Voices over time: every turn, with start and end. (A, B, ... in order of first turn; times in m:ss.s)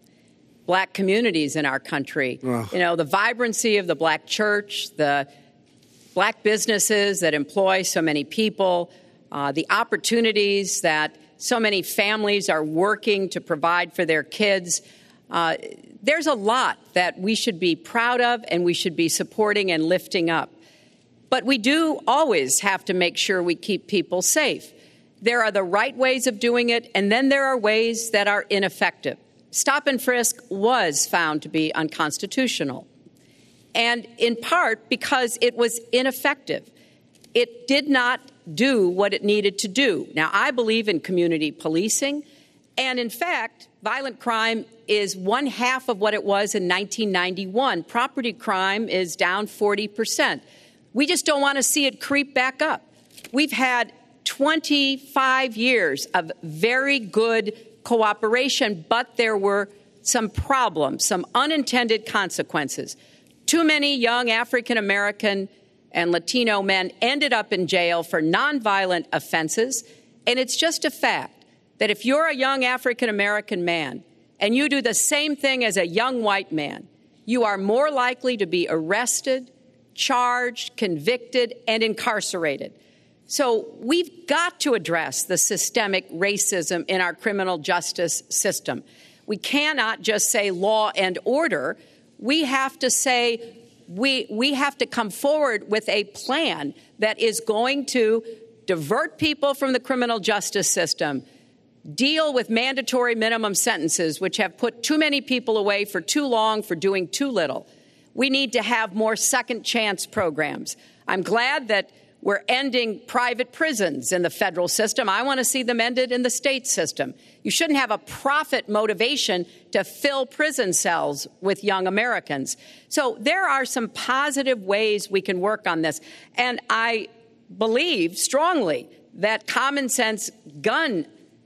0:00.7-0:05.3 A
0:06.1-0:20.5 A
0:21.3-0:32.8 A
0:33.7-0:36.7 A
0:37.3-0:42.2 A
0:42.8-0:50.4 A
0:50.9-1:02.9 A
1:03.4-1:22.7 A
1:23.3-1:41.2 A
1:41.9-2:11.1 A